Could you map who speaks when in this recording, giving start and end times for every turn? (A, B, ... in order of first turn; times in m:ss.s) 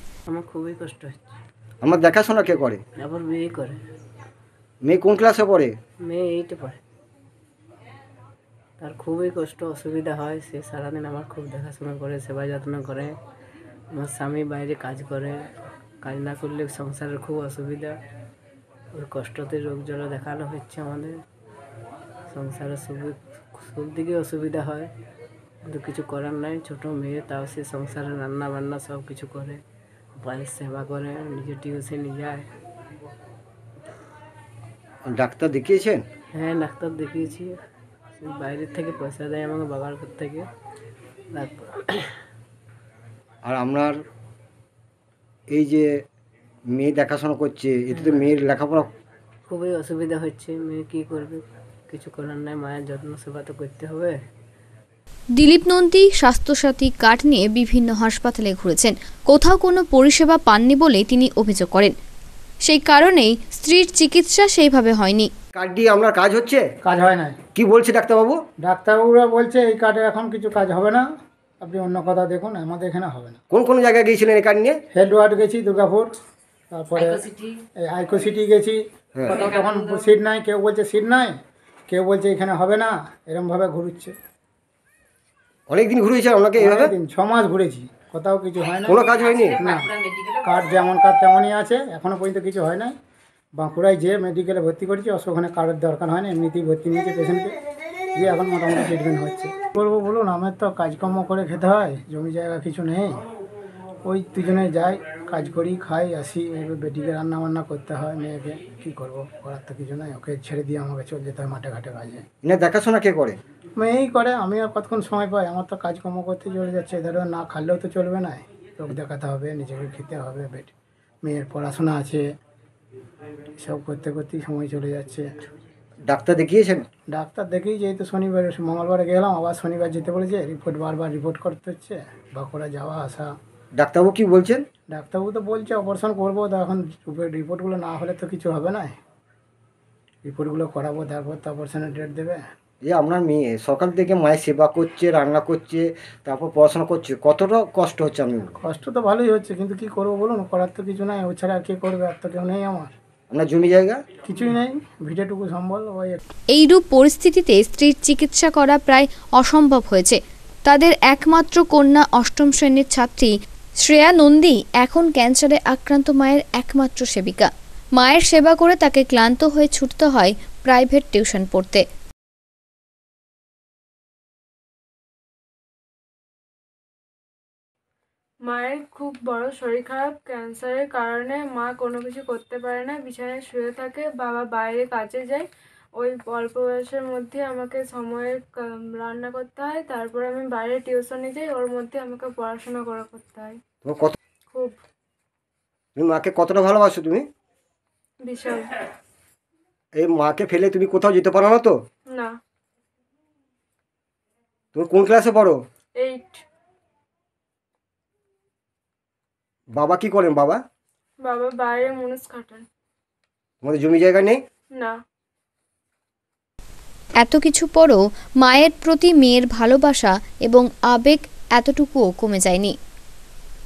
0:00.3-0:01.2 A
0:01.8-0:02.8 B
0:03.0-0:03.8 A
0:04.8-0:05.7 B
0:06.0-0:06.8 A
0:08.8-0:13.2 A
0:13.9-0:15.4 A
0:16.0-0:18.0 A
0:19.0-0:21.2 A
0:22.3-0:24.9 A
0:25.6-0:29.6 A
0:30.2-0:32.5 A
0:35.1-0:36.0 B
0:36.3-0:37.6 A
0:38.2-0:40.5 A
0:41.3-0:42.1 A
0:43.4-0:44.0 B
0:45.5-0:45.9 B
0:46.7-0:48.9 B
0:47.9-0:48.3 A
0:49.5-0:54.2 A
0:55.4-1:01.9 C
1:02.6-1:05.3 C
1:05.5-1:06.6 B
1:06.8-1:07.4 D
1:07.5-1:08.4 B
1:08.6-1:11.0 D
1:11.6-1:13.4 D
1:13.5-1:14.8 B
1:14.9-1:16.1 D
1:16.7-1:21.4 D
1:19.2-1:19.4 B
1:21.9-1:24.1 D
1:25.7-1:26.9 B
1:26.6-1:32.9 D
1:28.8-1:29.6 B
1:33.6-1:37.5 D
1:38.1-1:43.2 D
1:44.0-1:52.2 D
1:52.4-1:53.4 B
1:53.8-2:00.7 D
2:01.2-2:02.2 D
2:03.6-2:05.3 D
2:06.1-2:06.8 B
2:07.1-2:13.3 D
2:13.8-2:14.6 B
2:14.9-2:18.9 D
2:20.2-2:22.4 D
2:22.8-2:28.5 B
2:28.5-2:32.9 D
2:33.3-2:34.0 B
2:34.2-2:36.2 D
2:36.5-2:51.8 C
2:58.5-3:05.4 E
3:06.0-3:13.6 E
3:13.8-3:14.2 B
3:16.0-3:17.2 B
3:18.2-3:18.8 E
3:20.0-3:21.7 B
3:24.7-3:25.6 B
3:26.0-3:26.4 E
3:29.8-3:30.6 B
3:31.2-3:32.6 E
3:33.6-3:34.4 B
3:37.2-3:42.7 C